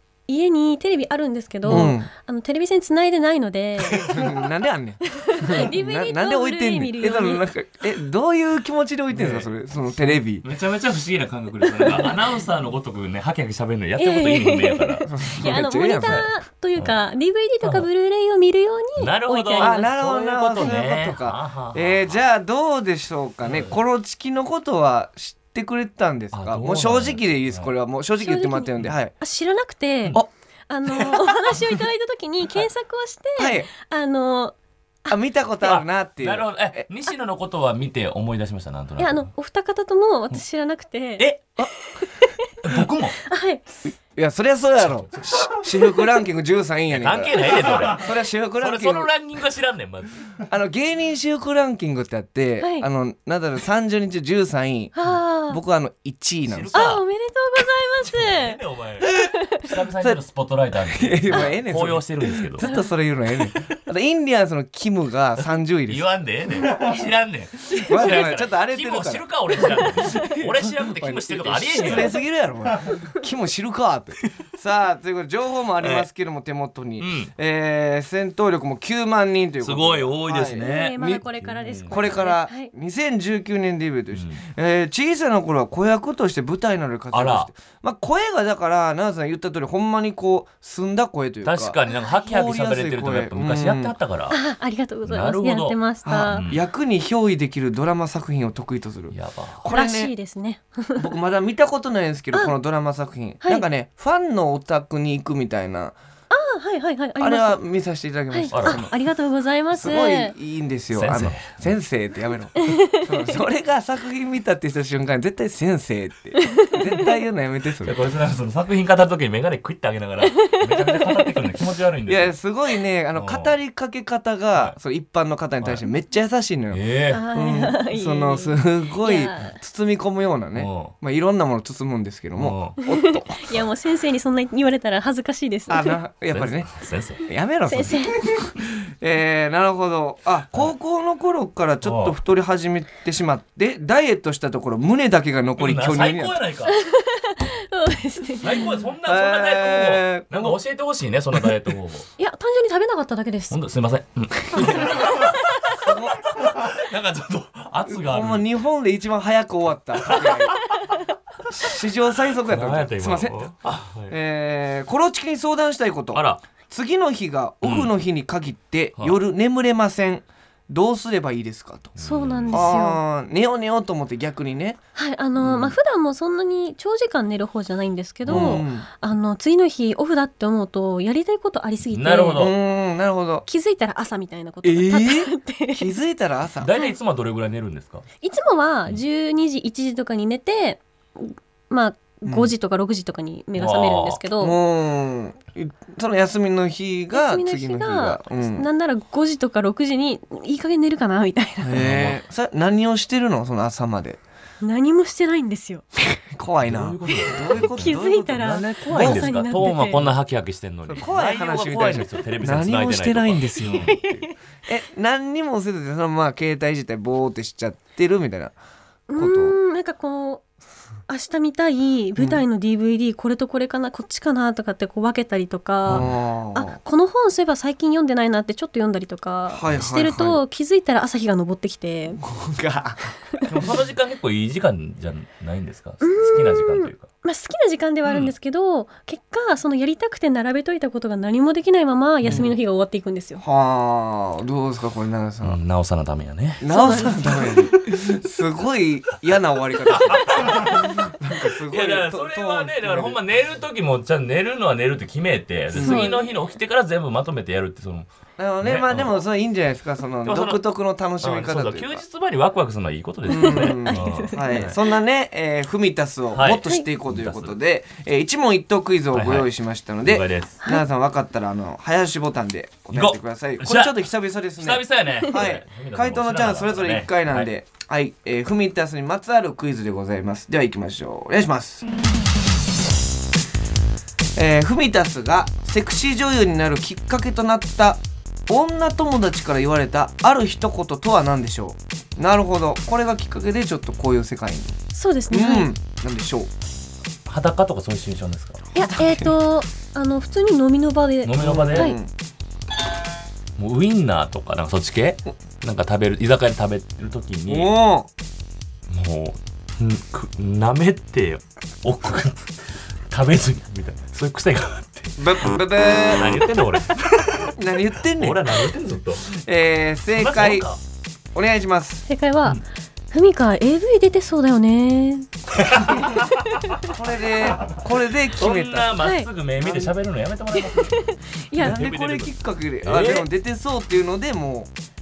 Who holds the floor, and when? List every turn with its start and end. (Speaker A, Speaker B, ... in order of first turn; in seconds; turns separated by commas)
Speaker A: 0.3-4.3, Speaker B: 1.7-1.9, Speaker C: 1.7-2.1, Speaker C: 3.9-10.4, Speaker A: 5.1-7.4, Speaker B: 9.1-9.5, Speaker B: 10.0-16.9, Speaker A: 11.7-12.2, Speaker A: 14.0-19.9, Speaker C: 15.1-16.2, Speaker B: 17.6-17.9, Speaker B: 19.0-22.1, Speaker C: 19.6-29.1, Speaker B: 23.4-23.8, Speaker B: 26.3-27.7, Speaker A: 28.2-34.5, Speaker C: 33.4-33.7, Speaker C: 35.1-36.8, Speaker B: 35.6-39.3, Speaker A: 39.0-42.6, Speaker B: 41.2-41.5, Speaker B: 42.6-43.2, Speaker A: 43.2-43.6, Speaker C: 44.1-49.1, Speaker B: 44.8-45.6, Speaker B: 46.9-50.4, Speaker C: 50.5-55.0, Speaker A: 52.6-52.9, Speaker A: 54.9-55.6, Speaker C: 55.5-56.8, Speaker B: 56.5-57.0, Speaker A: 56.7-58.6, Speaker B: 58.0-62.7, Speaker A: 59.1-59.6, Speaker C: 60.9-66.1, Speaker B: 65.8-72.1, Speaker C: 67.8-81.2, Speaker A: 71.8-72.1, Speaker B: 75.8-76.1, Speaker B: 77.0-77.3, Speaker B: 79.6-82.2, Speaker A: 80.6-82.7, Speaker C: 81.9-93.9, Speaker B: 84.1-84.4, Speaker B: 87.1-87.5, Speaker B: 91.4-94.4, Speaker A: 91.9-92.1, Speaker A: 94.3-96.4, Speaker B: 95.0-96.6, Speaker C: 96.0-100.1, Speaker B: 99.1-99.6, Speaker A: 99.7-101.0, Speaker C: 101.0-106.0, Speaker A: 106.3-107.6, Speaker C: 107.2-108.9, Speaker A: 108.3-110.3, Speaker B: 108.5-108.9, Speaker C: 109.7-118.0, Speaker B: 110.9-111.7, Speaker A: 112.5-113.3, Speaker A: 116.4-116.8, Speaker B: 117.8-122.3, Speaker A: 120.4-121.3, Speaker C: 122.1-126.8, Speaker B: 123.1-123.5, Speaker B: 126.7-127.2, Speaker A: 127.1-129.6, Speaker C: 127.3-133.6, Speaker B: 130.5-130.9, Speaker B: 132.4-132.8, Speaker A: 132.8-136.0, Speaker C: 135.7-136.7, Speaker B: 136.3-137.2, Speaker C: 137.2-146.4, Speaker A: 137.7-138.2, Speaker B: 141.8-142.2, Speaker B: 145.6-146.8, Speaker A: 146.7-148.7, Speaker B: 148.4-152.1, Speaker C: 149.0-150.6, Speaker A: 152.2-153.6, Speaker B: 153.5-158.5, Speaker A: 154.5-155.6, Speaker C: 155.8-156.3, Speaker C: 157.9-160.6, Speaker B: 160.0-160.4, Speaker C: 161.5-163.5, Speaker B: 162.4-164.1, Speaker C: 164.1-171.9, Speaker B: 166.1-166.4, Speaker B: 167.6-167.9, Speaker B: 172.0-172.7, Speaker A: 172.0-173.0, Speaker C: 172.5-174.8, Speaker A: 174.9-182.5, Speaker C: 175.4-175.7, Speaker B: 178.2-178.6, Speaker C: 178.3-178.9, Speaker B: 181.9-182.5, Speaker C: 182.4-183.4, Speaker A: 183.4-185.9, Speaker C: 184.6-186.7, Speaker B: 186.6-188.0, Speaker A: 188.2-194.6, Speaker C: 192.2-192.5, Speaker B: 193.6-194.2, Speaker C: 194.4-198.7, Speaker A: 197.1-201.8, Speaker C: 201.6-204.2, Speaker B: 201.7-202.2, Speaker A: 204.6-205.8, Speaker C: 206.0-209.3, Speaker B: 206.6-214.3, Speaker A: 207.5-210.1, Speaker C: 210.9-214.0, Speaker A: 213.7-214.3, Speaker C: 214.7-218.5, Speaker A: 219.1-220.4, Speaker C: 219.2-219.6, Speaker A: 221.1-232.2, Speaker C: 222.2-222.4, Speaker B: 225.9-226.2, Speaker C: 225.9-226.8, Speaker C: 229.5-230.4, Speaker C: 232.2-233.1, Speaker B: 233.4-237.1, Speaker A: 236.0-243.4, Speaker B: 238.1-238.3, Speaker B: 242.2-242.5, Speaker C: 242.2-242.5, Speaker C: 243.4-245.6, Speaker B: 245.4-247.6, Speaker C: 246.6-253.2, Speaker A: 246.7-247.7, Speaker B: 249.9-251.1, Speaker B: 251.7-258.1, Speaker C: 255.7-256.1, Speaker A: 255.8-256.2, Speaker C: 258.4-262.0, Speaker B: 258.6-259.2, Speaker B: 260.2-260.6, Speaker B: 261.2-264.8, Speaker A: 263.3-264.7, Speaker C: 263.3-281.8, Speaker B: 266.3-267.5, Speaker B: 269.1-269.5, Speaker B: 270.0-270.6, Speaker B: 272.9-277.5, Speaker C: 284.4-294.8, Speaker A: 294.9-295.7, Speaker C: 295.3-296.5, Speaker B: 297.3-298.6, Speaker A: 298.7-302.0, Speaker C: 298.8-299.3, Speaker B: 301.2-301.9, Speaker C: 301.4-302.1, Speaker B: 303.6-307.7, Speaker C: 307.5-308.1, Speaker B: 308.9-319.3, Speaker C: 315.2-316.5, Speaker C: 317.5-318.7, Speaker C: 319.3-320.7, Speaker B: 320.1-320.8, Speaker C: 321.3-322.0, Speaker A: 322.1-326.1, Speaker B: 325.6-326.4, Speaker C: 326.9-328.9, Speaker B: 328.3-333.3, Speaker A: 329.0-329.3, Speaker C: 329.6-329.9, Speaker A: 330.7-331.8, Speaker C: 331.6-334.7